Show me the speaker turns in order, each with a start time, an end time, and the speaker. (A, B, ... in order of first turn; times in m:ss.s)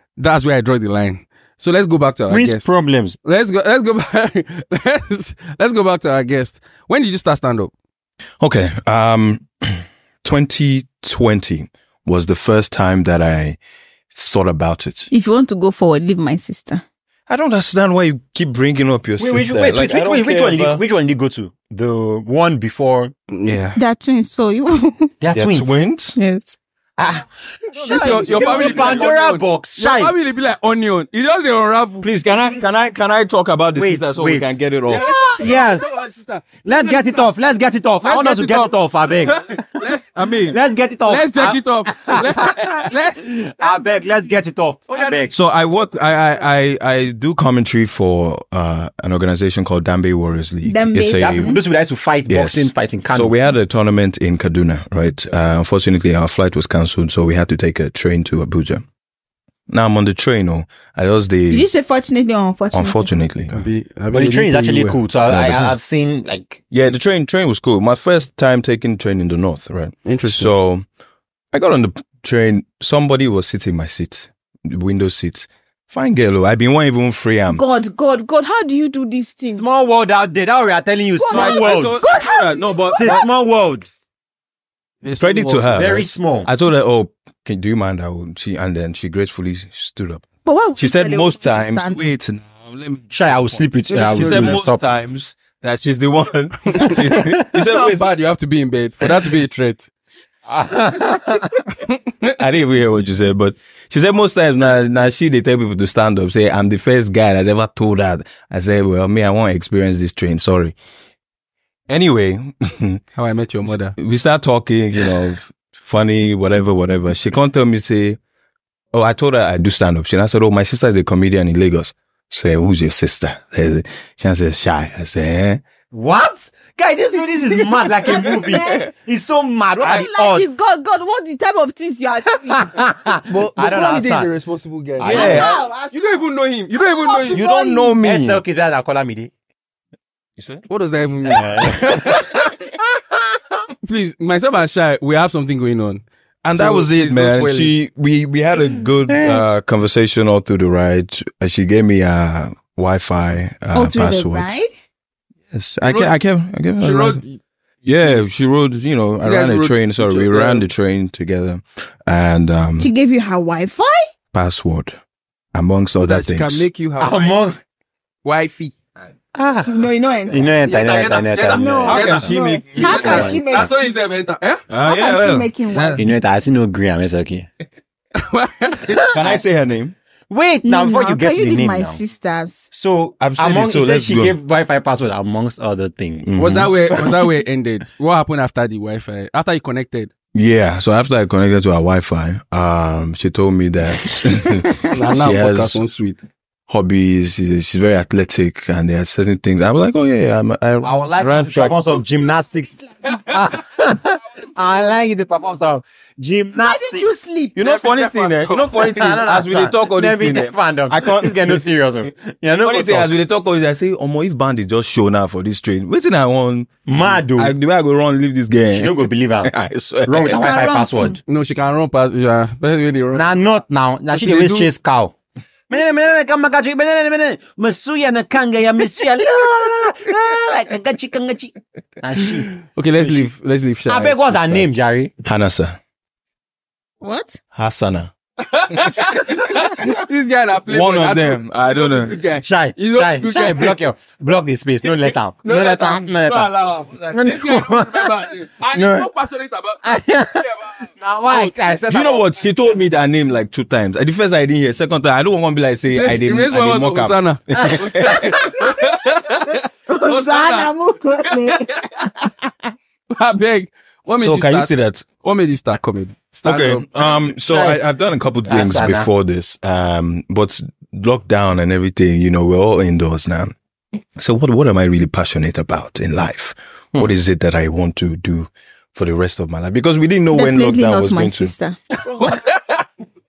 0:00.2-0:07.7 A
0:02.3-0:03.2 B
0:08.4-0:13.6 C
0:14.1-0:15.1 C
0:15.1-0:16.8 D
0:17.3-0:20.8 C
0:19.2-0:23.1 B
0:23.3-0:23.8 A
0:23.8-0:25.1 D
0:25.2-0:25.7 B
0:25.3-0:26.2 C
0:26.2-0:26.6 D
0:27.0-0:30.1 B
0:27.8-0:29.0 D
0:27.9-0:32.1 A
0:32.0-0:35.0 C
0:33.8-0:34.5 B
0:34.9-0:37.2 A
0:35.1-0:35.9 B
0:36.6-0:39.5 B
0:38.0-0:38.7 A
0:39.3-0:40.0 A
0:40.1-0:40.6 C
0:40.5-0:45.3 B
0:41.1-0:43.2 A
0:44.9-0:45.2 A
0:45.3-0:51.6 C
0:50.6-0:51.6 D
0:51.2-0:53.3 B
0:52.3-0:58.8 C
0:59.7-1:01.7 C
1:01.5-1:03.1 D
1:02.7-1:03.7 C
1:03.5-1:05.0 A
1:04.1-1:06.6 B
1:05.3-1:05.7 C
1:06.7-1:10.8 C
1:10.0-1:10.5 A
1:11.5-1:17.6 C
1:17.5-1:19.6 D
1:19.5-1:22.0 B
1:21.2-1:23.2 D
1:21.3-1:23.2 C
1:23.0-1:23.9 B
1:25.0-1:26.0 A
1:25.2-1:30.2 C
1:25.7-1:26.5 B
1:30.4-1:32.0 D
1:30.8-1:38.1 C
1:33.1-1:34.8 B
1:33.9-1:34.6 A
1:36.7-1:39.9 A
1:40.5-1:41.6 B
1:42.4-1:50.8 C
1:51.9-1:53.0 C
1:53.2-1:54.0 A
1:54.0-1:58.2 C
1:58.9-2:05.6 C
2:05.9-2:10.5 B
2:08.0-2:08.9 D
2:09.8-2:12.9 D
2:12.5-2:14.3 B
2:13.3-2:17.4 A
2:15.0-2:15.5 B
2:15.0-2:17.9 D
2:15.1-2:15.5 C
2:17.3-2:18.4 C
2:18.0-2:19.3 B
2:20.4-2:20.6 C
2:20.7-2:22.4 A
2:21.3-2:22.2 B
2:23.8-2:27.7 A
2:26.4-2:34.5 C
2:29.1-2:29.4 B
2:33.8-2:34.7 D
2:35.5-2:37.2 C
2:35.8-2:36.1 A
2:36.8-2:37.4 A
2:37.8-2:42.9 C
2:39.2-2:40.6 A
2:42.8-2:44.1 D
2:44.3-2:45.0 C
2:45.5-2:46.6 C
2:46.0-2:47.4 A
2:47.0-2:47.6 B
2:48.2-2:48.8 A
2:49.3-2:53.4 B
2:49.6-2:50.5 D
2:50.6-2:54.6 A
2:51.5-2:53.7 D
2:51.9-2:53.4 C
2:54.7-2:56.0 C
2:54.8-2:56.0 D
2:56.0-2:57.5 B
2:58.2-2:59.1 A
2:59.1-3:00.0 C
3:00.3-3:02.0 B
3:00.6-3:02.7 D
3:02.7-3:06.3 B
3:03.2-3:04.4 C
3:06.3-3:07.1 C
3:06.4-3:10.1 A
3:10.3-3:15.8 C
3:14.9-3:16.2 A
3:16.7-3:22.0 C
3:20.8-3:27.1 B
3:26.6-3:27.6 D
3:27.6-3:31.6 C
3:27.6-3:29.2 A
3:28.9-3:33.1 B
3:32.6-3:40.8 C
3:36.9-3:37.5 B
3:38.7-3:39.5 B
3:40.0-3:41.2 B
3:40.3-3:41.2 D
3:41.3-3:43.3 A
3:43.2-3:45.2 B
3:44.1-3:44.7 A
3:45.7-3:53.3 B
3:52.8-3:54.7 A
3:53.9-3:55.1 B
3:55.2-3:55.8 C
3:57.0-3:57.4 D
3:57.5-3:58.1 C
3:58.5-4:03.8 A
4:00.7-4:02.2 C
4:02.4-4:06.5 B
4:04.8-4:11.7 A
4:07.1-4:08.1 B
4:08.7-4:09.1 B
4:09.8-4:12.2 B
4:11.9-4:18.3 C
4:15.9-4:20.7 A
4:19.5-4:22.7 D
4:21.2-4:22.1 A
4:23.1-4:24.7 A
4:24.2-4:25.0 C
4:25.2-4:26.9 A
4:26.4-4:33.5 C
4:27.5-4:27.8 B
4:28.5-4:29.1 B
4:34.2-4:41.5 C
4:40.3-4:41.8 D
4:42.1-4:42.8 A
4:42.1-4:42.4 B